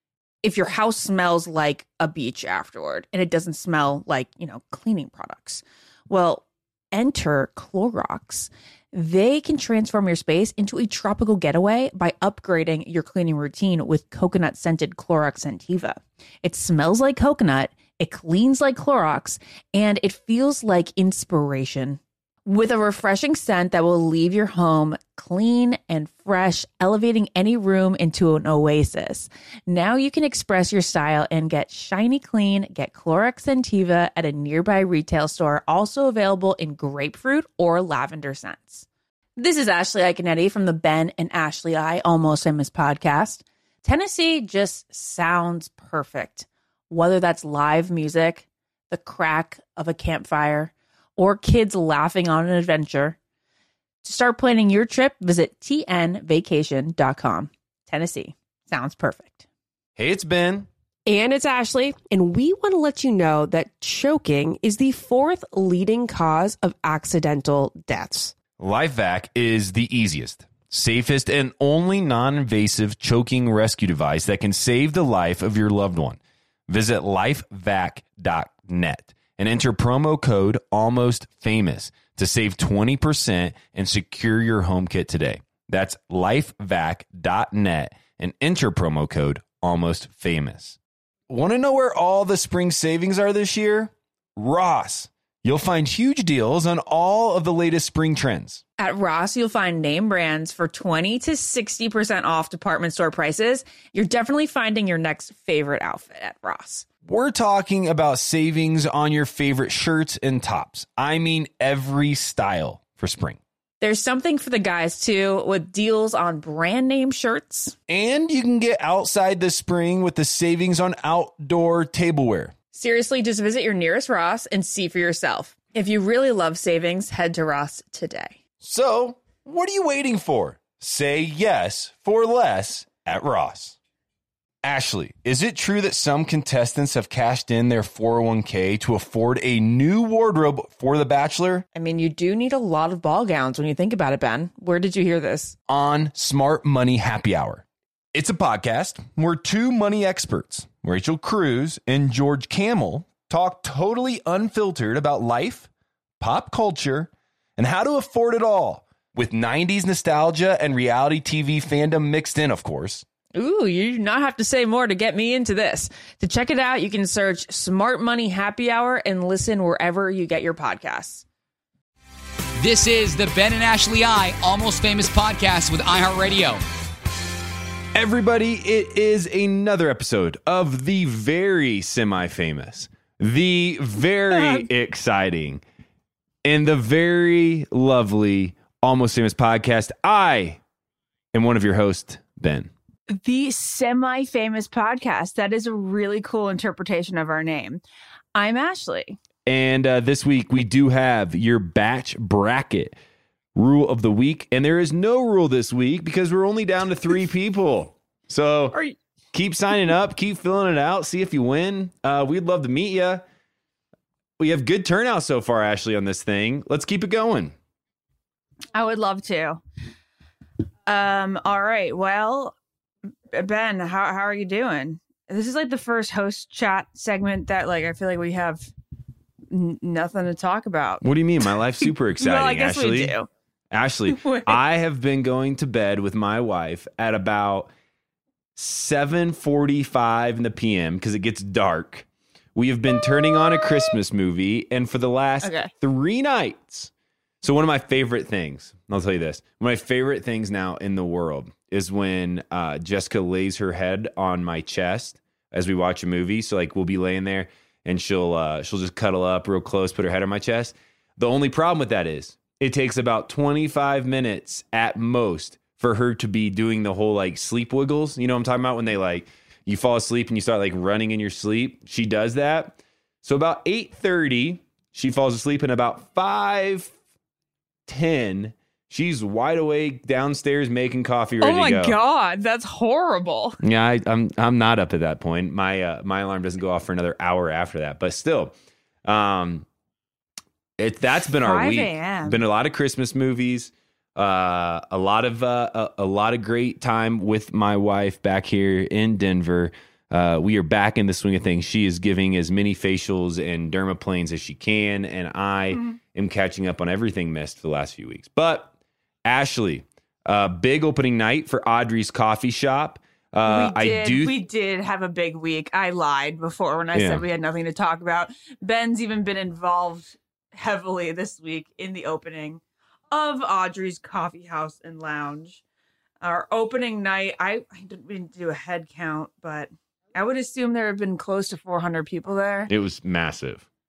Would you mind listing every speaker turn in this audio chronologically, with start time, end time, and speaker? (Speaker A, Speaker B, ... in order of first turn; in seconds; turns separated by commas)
Speaker A: 0.4-38.9, Speaker A: 39.4-53.2, Speaker A: 54.0-59.4, Speaker B: 60.0-60.7, Speaker C: 61.0-68.3, Speaker B: 68.6-90.8, Speaker B: 91.3-98.6, Speaker A: 98.8-106.8, Speaker B: 107.0-113.4, Speaker A: 113.8-117.8, Speaker B: 117.9-122.5, Speaker A: 122.7-128.3, Speaker B: 128.6-133.8, Speaker B: 134.6-141.7, Speaker A: 141.7-145.6, Speaker B: 145.7-155.7, Speaker B: 156.2-163.1, Speaker A: 163.3-171.2, Speaker D: 172.6-176.6, Speaker B: 177.9-185.6, Speaker A: 184.3-184.7, Speaker B: 186.4-190.6, Speaker B: 191.3-192.7, Speaker A: 193.1-197.8, Speaker A: 198.3-199.2, Speaker B: 199.4-202.9, Speaker B: 203.5-208.8, Speaker B: 209.3-213.2, Speaker B: 214.4-217.6, Speaker A: 218.7-219.6, Speaker A: 220.9-222.6, Speaker A: 223.3-228.7, Speaker A: 229.5-231.0, Speaker B: 231.0-233.2, Speaker A: 232.2-233.3, Speaker B: 233.7-237.7, Speaker A: 234.1-234.6, Speaker B: 238.6-246.9, Speaker A: 243.6-243.8, Speaker A: 245.4-245.7, Speaker B: 247.4-276.9, Speaker B: 277.9-282.0, Speaker A: 281.4-283.6, Speaker B: 283.6-288.5, Speaker B: 289.0-289.6, Speaker B: 290.8-308.7, Speaker A: 291.4-292.4, Speaker A: 305.7-306.0, Speaker B: 309.2-314.4, Speaker A: 313.4-325.6, Speaker B: 316.9-317.2, Speaker A: 326.2-332.7, Speaker B: 332.7-333.6